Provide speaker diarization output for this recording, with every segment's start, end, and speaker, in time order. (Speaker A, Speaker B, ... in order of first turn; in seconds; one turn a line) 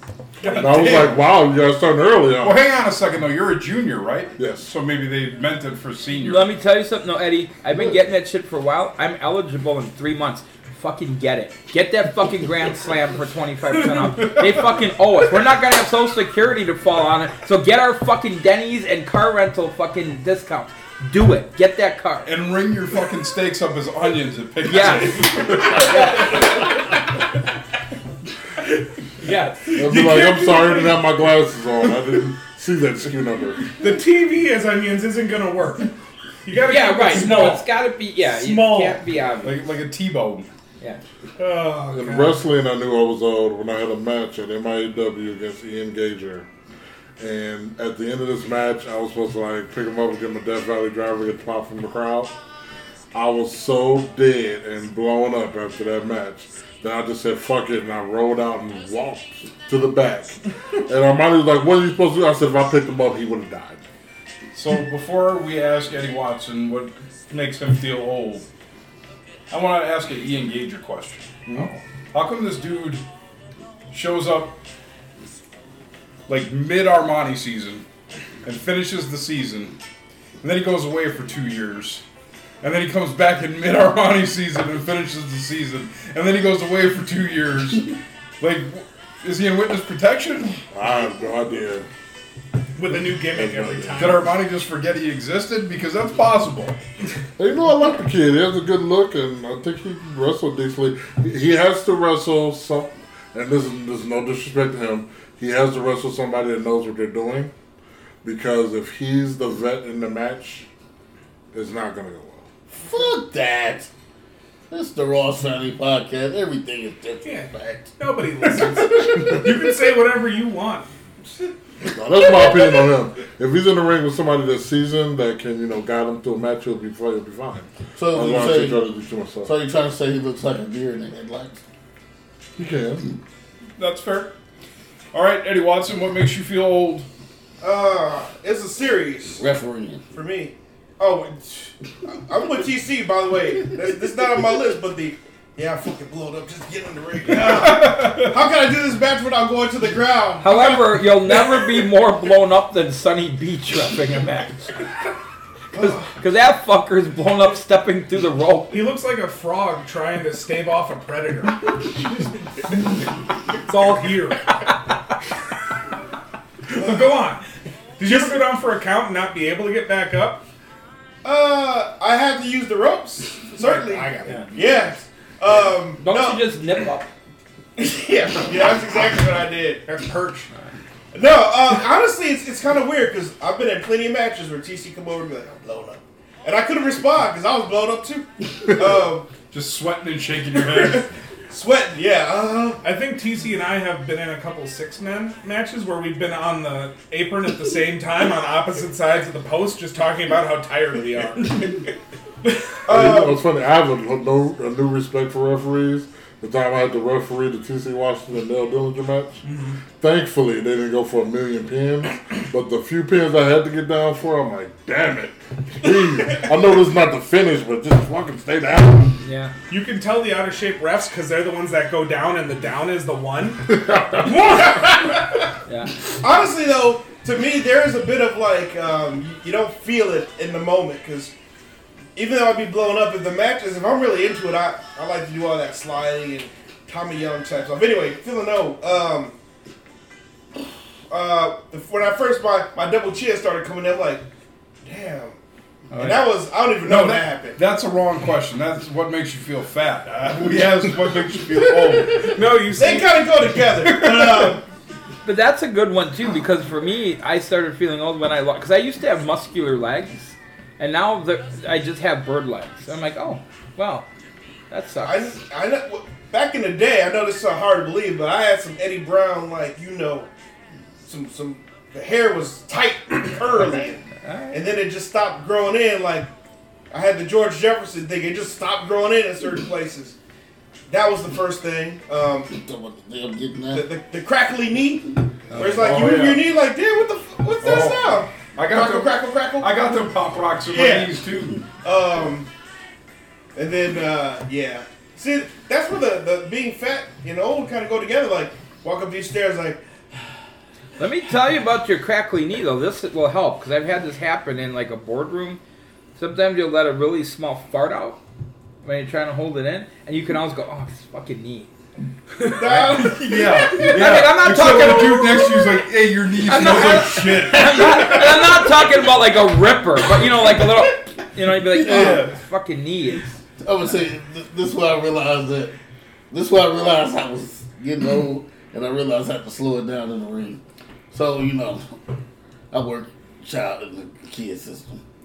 Speaker A: 0.4-1.1
Speaker B: 0.5-2.6
Speaker C: 0.7-1.0
Speaker C: 2.4-6.5
Speaker B: 4.4-4.7
Speaker D: 6.2-22.3
Speaker C: 14.3-14.7
Speaker C: 22.2-26.4
Speaker D: 24.6-26.5
Speaker D: 29.2-29.8
Speaker A: 29.7-30.9
Speaker B: 29.7-33.7
Speaker A: 33.8-39.0
Speaker D: 36.6-39.6
Speaker C: 39.4-40.5
Speaker A: 41.4-42.4
Speaker B: 41.9-46.5
Speaker B: 47.2-52.3
Speaker B: 53.1-63.8
Speaker C: 64.5-68.5
Speaker C: 69.5-73.0
Speaker C: 73.9-74.5
Speaker C: 76.3-77.8
Speaker C: 78.4-79.8
Speaker C: 80.4-82.0
Speaker C: 82.6-90.6
Speaker B: 90.7-91.9
Speaker A: 92.8-94.3
Speaker B: 93.3-94.2
Speaker C: 94.0-96.8
Speaker B: 97.4-107.5
Speaker B: 108.2-110.7
Speaker B: 111.5-112.5
Speaker E: 112.7-113.9
Speaker E: 114.7-117.9
Speaker A: 117.2-120.9
Speaker B: 121.9-129.5
Speaker E: 128.0-128.8
Speaker E: 129.4-131.6
Speaker B: 132.6-133.0
Speaker C: 133.8-134.3
Speaker C: 135.1-137.1
Speaker F: 137.6-139.5
Speaker E: 139.4-140.0
Speaker F: 140.1-151.7
Speaker C: 147.2-148.4
Speaker D: 150.4-154.8
Speaker F: 155.7-156.1
Speaker D: 155.8-158.8
Speaker A: 158.7-163.0
Speaker A: 163.6-164.6
Speaker A: 166.7-167.4
Speaker F: 166.7-167.1
Speaker A: 168.0-170.4
Speaker F: 168.1-168.4
Speaker F: 171.2-176.5
Speaker A: 173.6-174.5
Speaker D: 175.5-177.1
Speaker F: 177.8-179.8
Speaker A: 179.8-180.5
Speaker F: 181.1-189.3
Speaker C: 189.5-191.1
Speaker F: 190.6-192.8
Speaker A: 192.8-201.9
Speaker A: 202.4-202.8
Speaker F: 202.8-203.4
Speaker B: 202.9-209.4
Speaker A: 209.4-209.8
Speaker B: 210.0-219.2
Speaker D: 219.2-219.5
Speaker A: 219.7-224.8
Speaker B: 223.9-224.2
Speaker F: 224.2-225.5
Speaker D: 225.7-225.9
Speaker F: 226.2-231.3
Speaker F: 232.1-239.3
Speaker F: 241.1-244.3
Speaker F: 244.8-245.4
Speaker F: 245.9-247.6
Speaker C: 245.9-246.3
Speaker C: 246.8-252.4
Speaker A: 252.1-253.2
Speaker F: 252.7-254.6
Speaker C: 253.8-254.5
Speaker D: 255.2-264.1
Speaker D: 264.7-265.4
Speaker F: 265.0-270.3
Speaker F: 271.0-276.3
Speaker D: 274.2-274.6
Speaker F: 276.9-280.1
Speaker F: 280.9-282.6
Speaker E: 282.5-283.9
Speaker F: 283.7-289.7
Speaker C: 285.5-286.4
Speaker C: 287.6-291.6
Speaker F: 290.7-291.2
Speaker F: 291.8-292.5
Speaker F: 293.5-299.8
Speaker D: 301.0-305.6
Speaker D: 306.2-308.2
Speaker D: 308.8-311.7
Speaker F: 312.4-314.0
Speaker C: 312.7-318.6
Speaker D: 312.8-315.5
Speaker D: 316.4-323.4
Speaker E: 321.8-322.3
Speaker C: 321.8-322.4
Speaker E: 323.6-325.7
Speaker E: 326.3-330.6
Speaker E: 331.1-331.8
Speaker E: 332.7-335.0